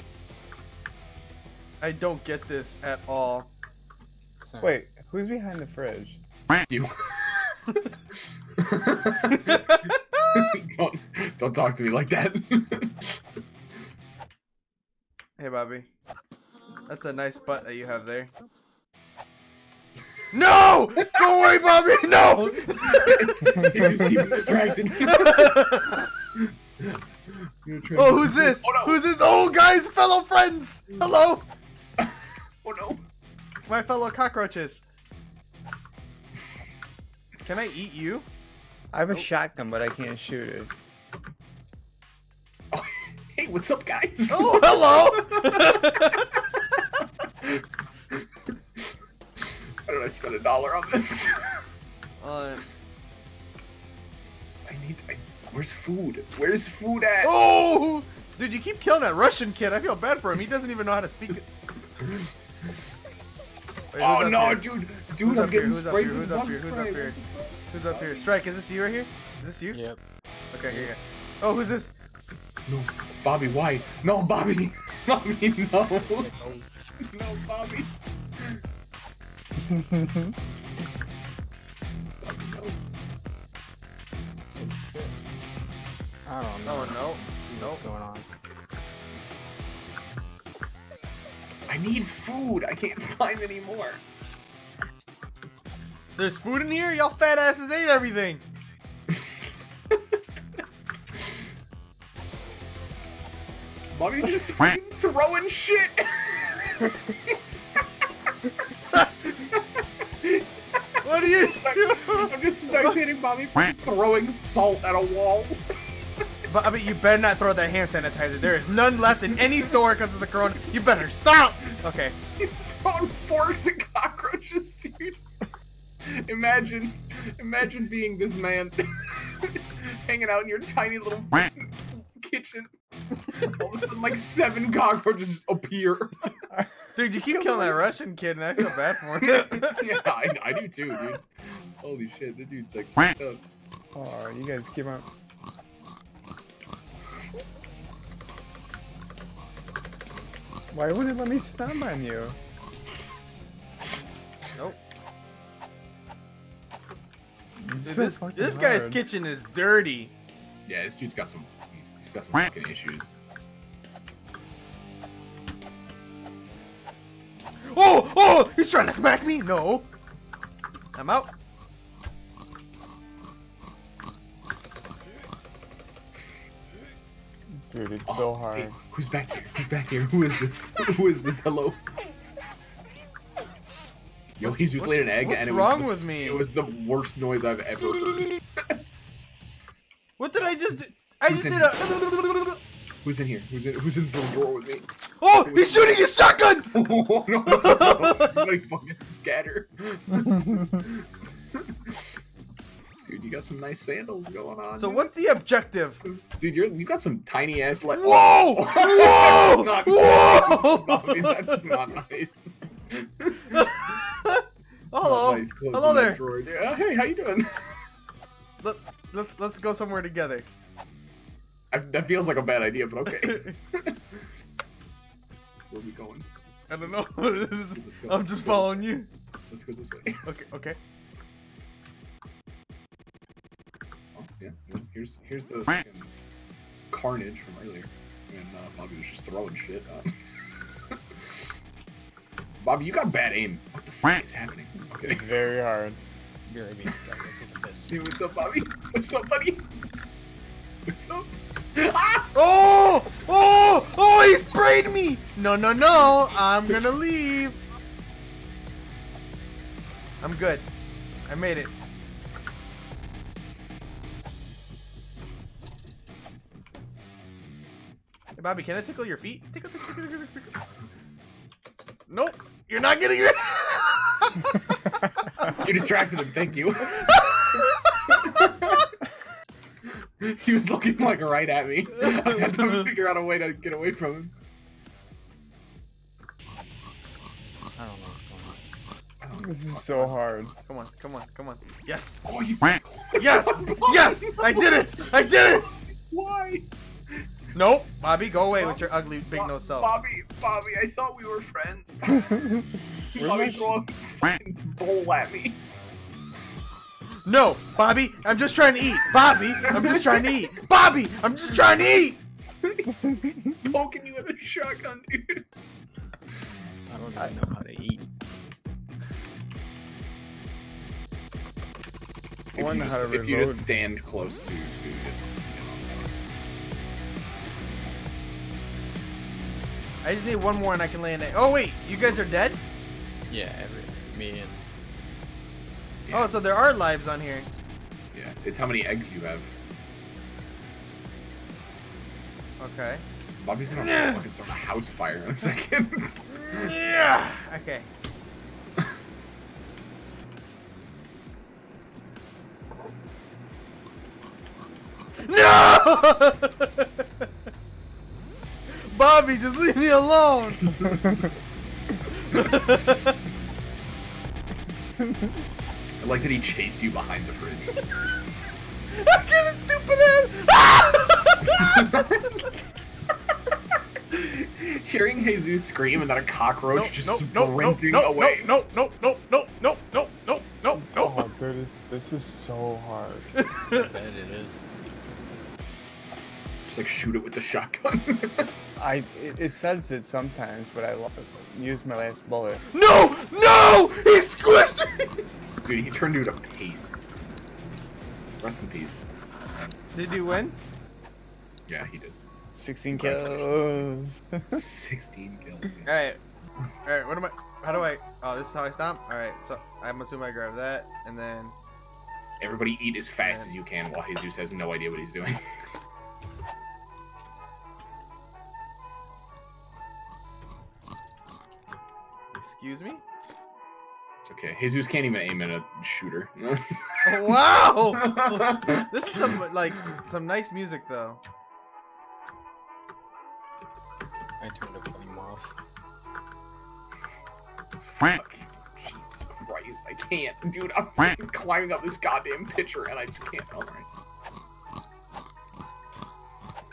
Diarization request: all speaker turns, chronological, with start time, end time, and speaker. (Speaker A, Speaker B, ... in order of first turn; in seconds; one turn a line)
Speaker A: 1.8-3.5
Speaker B: 4.4-4.8
Speaker C: 4.6-6.2
Speaker D: 6.7-7.7
Speaker D: 8.6-13.2
Speaker A: 9.3-10.3
Speaker A: 15.4-15.9
Speaker A: 16.9-18.3
Speaker A: 20.3-26.1
Speaker D: 22.4-29.0
Speaker A: 27.9-31.5
Speaker D: 32.0-33.0
Speaker A: 33.7-34.8
Speaker A: 37.4-38.2
Speaker C: 38.9-40.7
Speaker D: 42.7-48.2
Speaker A: 44.3-46.2
Speaker D: 49.4-51.6
Speaker A: 52.2-52.6
Speaker D: 54.6-57.3
Speaker A: 57.2-61.5
Speaker D: 62.0-62.7
Speaker A: 63.9-64.7
Speaker D: 64.0-68.3
Speaker A: 65.2-67.2
Speaker A: 67.7-69.8
Speaker B: 69.7-70.0
Speaker A: 70.5-71.9
Speaker B: 70.7-70.9
Speaker D: 72.7-76.3
Speaker B: 76.0-76.7
Speaker D: 77.0-78.6
Speaker C: 79.6-80.3
Speaker D: 82.2-82.8
Speaker B: 84.5-85.2
Speaker B: 86.2-88.3
Speaker A: 86.7-87.8
Speaker D: 91.7-94.0
Speaker A: 96.2-98.4
Speaker D: 103.9-108.0
Speaker A: 108.8-109.2
Speaker D: 109.3-110.5
Speaker A: 111.0-112.9
Speaker D: 111.2-115.6
Speaker A: 116.5-122.2
Speaker D: 122.4-125.2
Speaker D: 126.1-132.7
Speaker D: 133.3-136.4
Speaker C: 136.5-137.8
Speaker A: 137.0-140.0
Speaker D: 139.2-143.4
Speaker C: 143.9-145.1
Speaker C: 150.7-152.4
Speaker C: 157.6-159.0
Speaker A: 157.8-160.1
Speaker D: 160.7-163.2
Speaker A: 167.7-169.9
Speaker A: 170.9-171.3
Speaker C: 177.5-178.8
Speaker D: 178.1-181.9
Speaker D: 184.4-188.8
Speaker A: 184.6-186.4
Speaker A: 190.2-192.6
Speaker D: 191.3-191.8
Speaker D: 193.0-196.1
Speaker A: 195.2-196.7
Speaker D: 196.7-202.1
Speaker A: 197.5-198.5
Speaker D: 203.1-205.1
Speaker A: 204.8-206.0
Speaker D: 206.0-213.7
Speaker A: 207.9-211.6
Speaker A: 213.5-216.2
Speaker D: 214.9-217.6
Speaker A: 218.6-220.5
Speaker D: 221.7-224.3
Speaker A: 223.2-223.5
Speaker D: 225.7-226.3
Speaker A: 226.7-229.1
Speaker D: 227.7-229.0
Speaker D: 229.5-230.2
Speaker A: 230.2-230.8
Speaker D: 234.2-236.1
Speaker D: 236.9-240.1
Speaker D: 240.9-241.3
Speaker D: 242.6-245.3
Speaker C: 244.9-246.0
Speaker B: 246.5-248.0
Speaker D: 247.9-249.7
Speaker D: 250.9-252.3
Speaker A: 252.3-257.6
Speaker A: 260.2-260.7
Speaker A: 261.3-261.7
Speaker A: 268.4-270.5
Speaker A: 272.1-275.0
Speaker D: 275.4-278.9
Speaker A: 277.0-277.7
Speaker D: 280.2-284.3
Speaker A: 282.0-282.8
Speaker B: 287.8-288.6
Speaker D: 289.2-290.2
Speaker C: 289.4-290.5
Speaker A: 290.7-292.2
Speaker D: 292.2-296.7
Speaker A: 293.2-295.8
Speaker A: 297.6-299.9
Speaker D: 298.5-302.2
Speaker C: 302.1-303.8
Speaker D: 303.1-305.6
Speaker A: 307.2-312.2
Speaker D: 309.6-310.4
Speaker D: 312.6-315.4
Speaker C: 313.0-313.5
Speaker B: 316.9-318.1
Speaker D: 322.5-326.1
Speaker C: 322.6-323.7
Speaker A: 330.0-332.6
Speaker B: 333.3-334.6
Speaker D: 336.1-336.4
Speaker A: 336.1-337.5
Speaker D: 338.1-339.5
Speaker A: 342.6-343.0
Speaker D: 343.4-346.8
Speaker A: 343.7-344.2
Speaker A: 346.5-347.9
Speaker A: 355.3-357.3
Speaker A: 358.7-361.0
Speaker A: 362.1-363.2
Speaker D: 366.0-367.8
Speaker A: 368.9-372.1
Speaker D: 371.4-372.2
Speaker D: 374.1-378.5
Speaker A: 376.7-381.3
Speaker C: 380.8-383.3
Speaker A: 383.3-383.9
Speaker B: 383.7-384.6
Speaker D: 386.7-388.5
Speaker C: 388.8-392.6
Speaker A: 392.7-395.2
Speaker D: 395.6-397.0
Speaker D: 398.4-399.1
Speaker A: 399.9-400.6
Speaker D: 401.7-402.2
Speaker C: 402.5-404.6
Speaker D: 402.9-403.9
Speaker D: 404.5-406.1
Speaker A: 405.9-406.2
Speaker A: 406.9-411.5
Speaker D: 412.4-415.4
Speaker A: 413.2-413.5
Speaker A: 422.4-423.0
Speaker D: 424.2-429.4
Speaker A: 427.1-431.2
Speaker B: 434.4-435.5
Speaker D: 437.8-443.9